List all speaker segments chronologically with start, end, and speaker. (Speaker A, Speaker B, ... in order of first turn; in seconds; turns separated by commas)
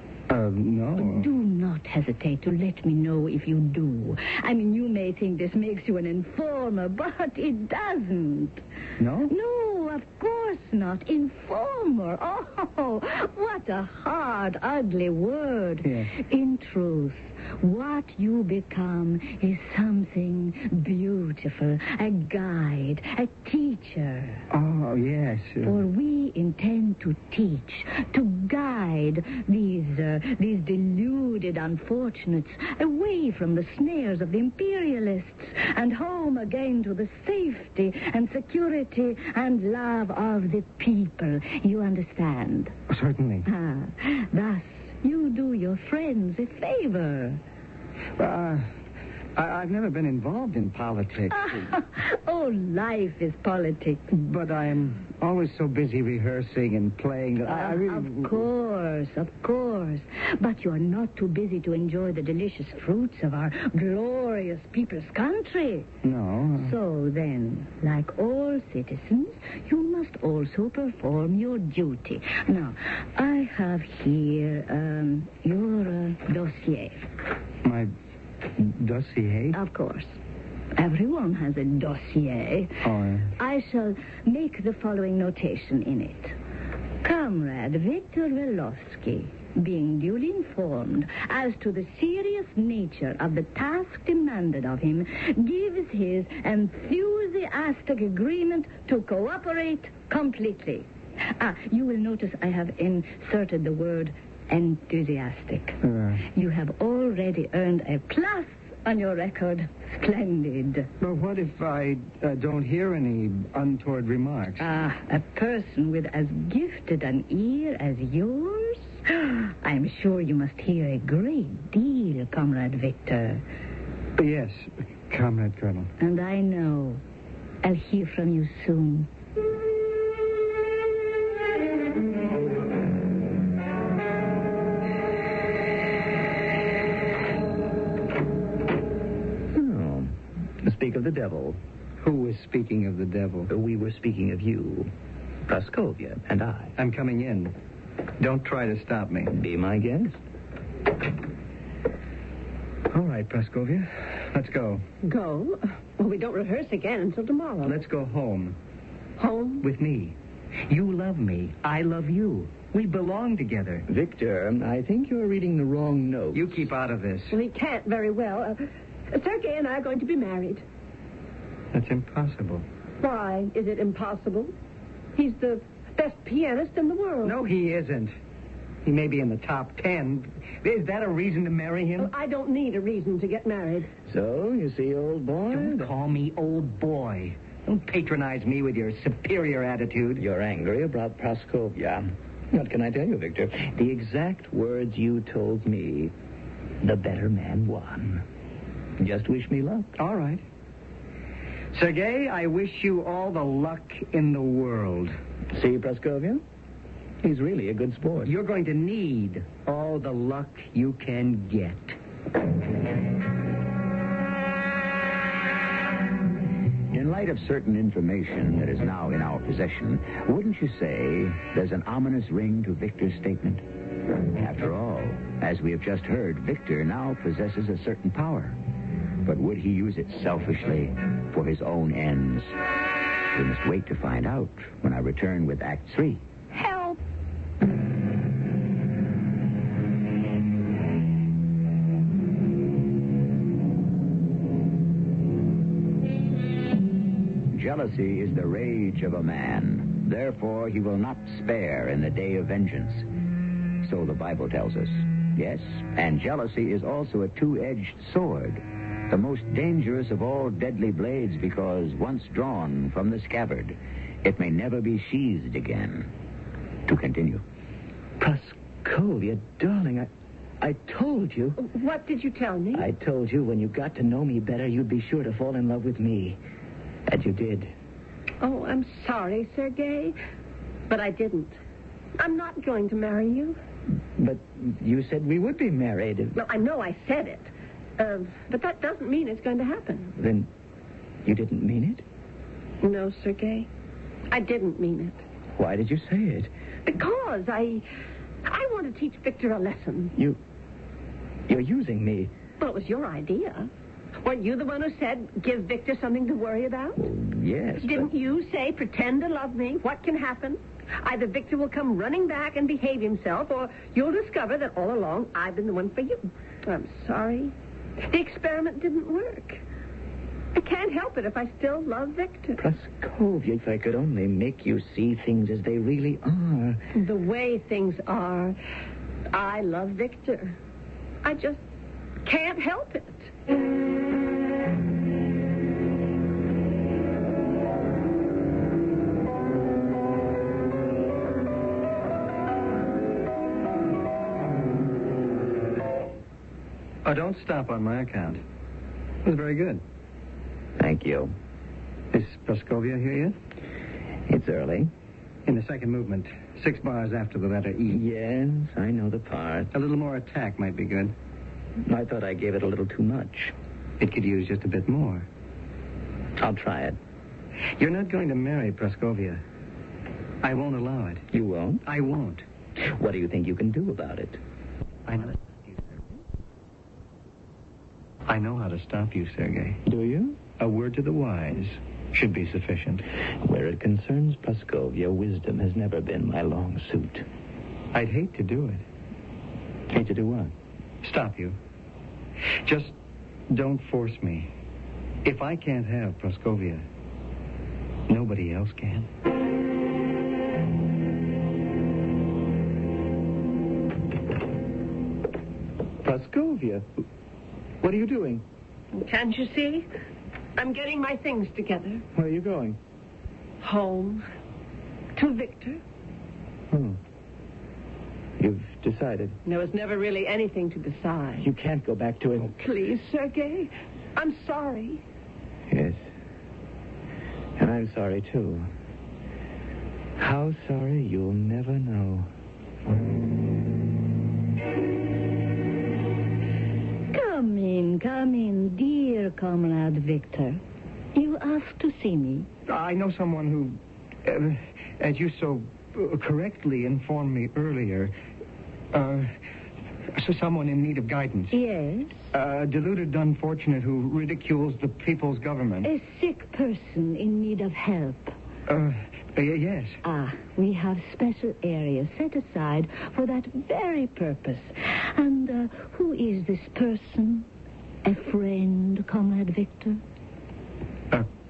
Speaker A: 0.3-1.3, Speaker B: 0.9-8.6, Speaker A: 9.0-9.3, Speaker B: 9.3-24.4, Speaker A: 24.5-25.8, Speaker B: 25.6-42.7, Speaker A: 42.9-43.5, Speaker B: 43.5-47.4, Speaker A: 48.2-48.7, Speaker A: 49.4-51.7, Speaker B: 51.3-54.0, Speaker A: 54.1-58.4, Speaker B: 57.4-65.9, Speaker A: 66.0-66.7, Speaker B: 66.6-77.1, Speaker A: 77.6-77.9, Speaker A: 78.5-79.6, Speaker B: 79.5-80.2, Speaker B: 80.8-86.3, Speaker A: 82.8-83.3, Speaker B: 87.0-100.9, Speaker B: 101.4-110.9, Speaker A: 105.8-106.2, Speaker A: 111.0-114.6, Speaker B: 114.6-123.4, Speaker A: 124.2-125.9, Speaker B: 126.0-127.0, Speaker B: 127.6-129.1, Speaker C: 139.5-141.6, Speaker A: 142.0-143.5, Speaker C: 143.5-144.9, Speaker C: 145.5-146.7, Speaker A: 146.8-147.5, Speaker A: 148.2-149.4, Speaker C: 149.3-150.2, Speaker A: 152.9-154.8, Speaker D: 155.0-157.8, Speaker A: 157.6-158.6, Speaker D: 159.2-159.7, Speaker A: 159.6-160.2, Speaker A: 160.7-163.8, Speaker C: 163.9-166.6, Speaker A: 166.3-167.3, Speaker D: 167.3-170.6, Speaker A: 171.7-172.6, Speaker D: 173.0-174.5, Speaker D: 175.2-177.4, Speaker A: 177.2-178.1, Speaker A: 178.8-182.1, Speaker D: 182.0-183.9, Speaker C: 184.1-185.9, Speaker A: 185.5-190.2, Speaker C: 190.2-196.1, Speaker C: 196.8-198.2, Speaker C: 199.0-199.9, Speaker A: 199.9-200.4, Speaker A: 201.7-205.1, Speaker C: 205.5-206.4, Speaker C: 207.2-208.3, Speaker A: 208.2-212.0, Speaker E: 216.9-223.6, Speaker E: 224.3-228.6, Speaker E: 229.2-232.5, Speaker E: 233.3-236.2, Speaker E: 247.5-253.1, Speaker E: 253.8-266.1, Speaker E: 266.9-267.4, Speaker C: 268.2-270.1, Speaker C: 270.6-271.6, Speaker D: 271.6-272.9, Speaker C: 272.7-276.4, Speaker C: 277.1-277.7, Speaker D: 278.4-280.1, Speaker D: 280.9-281.6, Speaker D: 282.2-283.6, Speaker C: 284.2-286.4, Speaker D: 286.3-290.1, Speaker C: 290.1-290.5, Speaker C: 291.2-292.0, Speaker D: 292.8-293.7, Speaker D: 294.3-295.2, Speaker C: 295.6-296.5, Speaker D: 296.9-297.8, Speaker D: 298.4-300.1, Speaker C: 301.5-302.3, Speaker D: 302.6-303.7, Speaker D: 304.2-307.0, Speaker C: 307.0-308.1, Speaker D: 307.8-319.6, Speaker D: 320.5-322.6, Speaker C: 322.6-326.8, Speaker D: 326.9-328.6, Speaker D: 329.3-330.6, Speaker D: 331.2-331.6, Speaker D: 332.2-333.3, Speaker A: 347.0-348.4, Speaker A: 349.2-349.8, Speaker C: 350.8-351.3, Speaker A: 352.1-353.4, Speaker C: 354.3-354.9, Speaker A: 355.4-358.0, Speaker C: 357.9-359.7, Speaker A: 359.7-361.1, Speaker C: 361.8-363.5, Speaker A: 364.0-365.3, Speaker C: 366.4-367.0, Speaker A: 367.8-369.4, Speaker A: 370.4-371.2, Speaker C: 371.3-371.8, Speaker A: 371.8-372.4, Speaker C: 372.8-374.4, Speaker A: 375.1-376.0, Speaker A: 378.2-379.8, Speaker C: 379.8-380.4, Speaker A: 380.5-383.0, Speaker C: 383.4-387.2, Speaker A: 387.9-388.8, Speaker C: 389.9-390.5, Speaker A: 391.0-391.6, Speaker A: 392.6-392.9, Speaker A: 393.5-394.5, Speaker A: 395.2-396.8, Speaker A: 398.1-399.1, Speaker C: 406.0-406.9, Speaker C: 407.8-408.4, Speaker D: 408.9-409.9, Speaker D: 410.6-412.0, Speaker C: 412.1-412.8, Speaker D: 413.6-414.2, Speaker D: 415.1-415.8, Speaker C: 416.7-417.0, Speaker C: 418.4-419.4, Speaker D: 419.4-421.5, Speaker C: 421.4-422.5, Speaker D: 422.4-425.0, Speaker C: 425.7-426.0, Speaker C: 427.6-428.7, Speaker C: 430.2-432.3, Speaker B: 437.1-440.6, Speaker B: 441.1-442.5, Speaker A: 442.7-448.1, Speaker A: 448.9-449.3, Speaker A: 450.1-451.6, Speaker B: 451.5-452.3, Speaker A: 452.3-455.9, Speaker B: 455.8-458.3, Speaker A: 458.7-460.0, Speaker B: 460.0-467.5, Speaker B: 468.0-470.0